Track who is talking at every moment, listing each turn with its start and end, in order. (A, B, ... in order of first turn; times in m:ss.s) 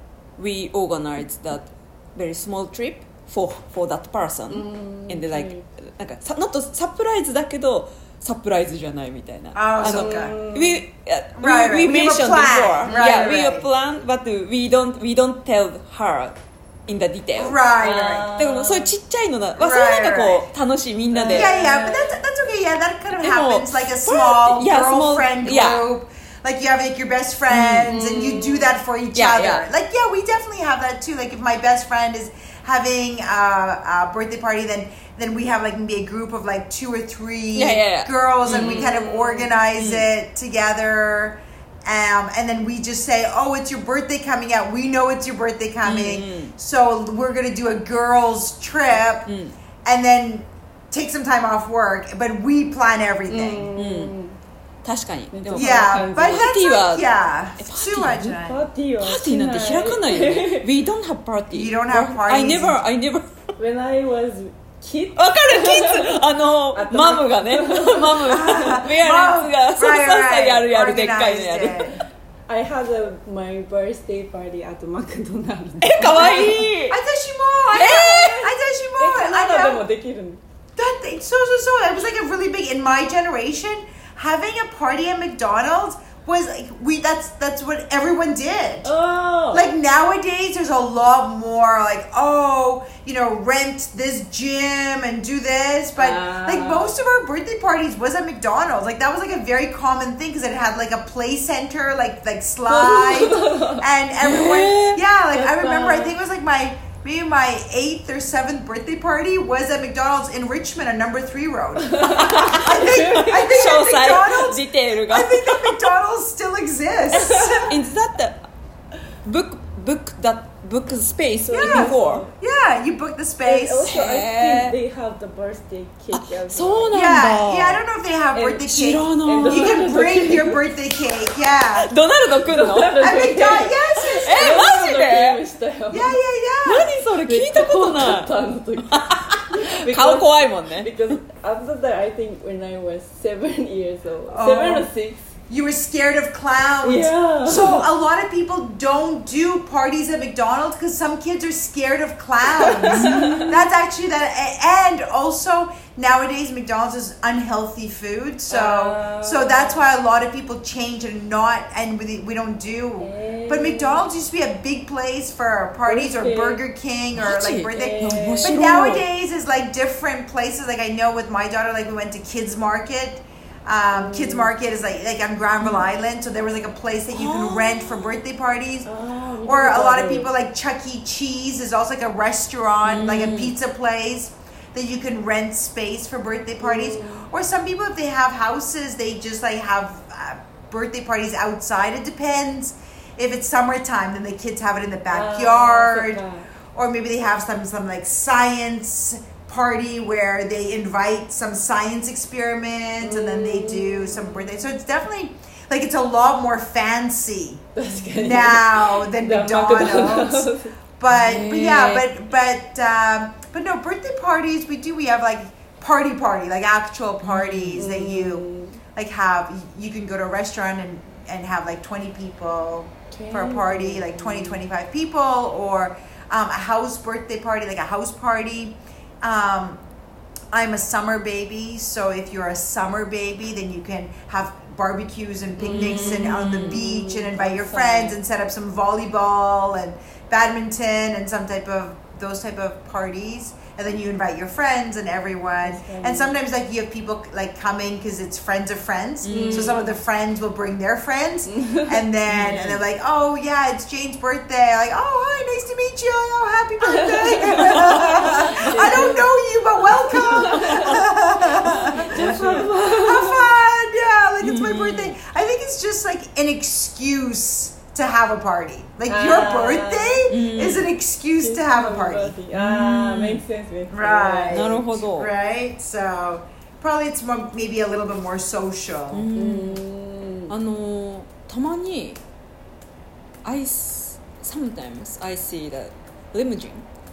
0:00.4-0:16.4 A
0:04.5-0:05.6 B
0:09.6-0:10.4 C
0:09.8-0:10.8 B
0:11.4-0:13.7 C
0:16.9-0:17.6 A
0:17.4-0:18.3 C
0:17.8-0:18.9 B
0:18.4-0:21.5 A
0:19.6-0:20.5 C
0:21.1-0:22.2 B
0:21.3-0:49.3 C
0:23.1-0:25.9 A
0:27.5-0:28.0 A
0:27.8-0:28.8 B
0:29.2-0:29.6 A
0:37.6-0:39.0 A
0:38.5-0:39.5 B
0:39.8-0:40.1 A
0:45.8-0:46.5 A
0:49.3-0:49.5 A
0:49.8-0:53.7 C
0:53.3-0:54.4 B
0:53.8-0:54.1 A
0:54.8-0:58.4 A
0:55.3-0:56.5 B
0:55.5-0:58.6 C
0:58.4-1:00.7 B
0:59.0-1:03.3 A
1:01.5-1:02.8 C
1:03.6-1:06.2 B
1:05.2-1:11.9 A
1:06.7-1:08.8 B
1:08.3-1:11.9 C
1:12.5-1:16.7 B
1:15.8-1:17.0 A
1:16.2-1:19.8 C
1:17.7-1:18.5 A
1:18.0-1:18.3 B
1:19.0-1:20.4 B
1:20.8-1:28.9 C
1:28.8-1:29.7 B
1:29.5-1:57.8 C
1:36.0-1:37.0 B
1:42.7-1:43.8 B
1:44.2-1:45.0 A
1:45.3-1:46.1 B
1:51.8-1:53.5 B
1:52.1-1:55.9 A
1:57.1-1:57.7 B
1:57.2-1:58.4 A
1:59.2-2:02.2 A
2:01.4-2:02.4 B
2:01.6-2:03.9 C
2:03.4-2:07.0 B
2:03.9-2:04.8 A
2:06.1-2:07.8 A
2:06.9-2:11.9 C
2:08.4-2:10.6 B
2:08.6-2:10.4 A
2:11.8-2:15.4 A
2:12.4-2:16.2 B
2:13.0-2:14.7 C
2:15.9-2:16.9 C
2:16.6-2:20.9 A
2:17.2-2:25.3 B
2:24.3-2:24.9 C
2:25.5-2:58.9 C
2:26.8-2:27.9 B
2:32.5-2:33.5 B
2:32.9-2:33.6 A
2:38.5-2:39.8 B
2:43.0-2:44.0 B
2:45.9-2:46.6 B
2:47.2-2:49.0 A
2:47.7-2:48.5 B
2:53.9-2:54.5 B
2:55.6-2:55.9 A
2:57.1-2:58.2 A
2:58.8-3:00.3 B
2:59.4-3:16.2 C
3:02.8-3:03.5 A
3:06.6-3:07.3 B
3:15.1-3:16.5 B
3:16.7-3:38.4 C
3:23.0-3:24.5 B
3:27.8-3:30.8 B
3:31.1-3:32.1 A
3:37.2-3:37.8 A
3:37.8-3:38.8 B
3:39.0-3:49.8 C
3:43.1-3:44.6 B
3:50.5-4:32.4 C
3:55.6-3:58.2 B
3:55.7-3:57.0 A
4:05.6-4:06.4 B
4:09.2-4:09.8 A
4:09.3-4:09.9 B
4:11.5-4:12.0 B
4:12.3-4:12.8 A
4:16.8-4:19.3 B
4:17.6-4:19.0 A
4:20.1-4:21.0 B
4:20.1-4:22.7 A
4:21.6-4:23.6 B
4:24.4-4:25.2 A
4:29.1-4:30.3 B
4:30.3-4:30.9 A
4:31.4-4:34.7 B
4:32.5-4:33.4 A
4:33.9-4:39.3 C
4:34.5-4:35.3 A
4:39.1-4:39.8 A
4:39.4-4:40.5 B
4:40.5-4:42.2 A
4:43.4-4:46.8 A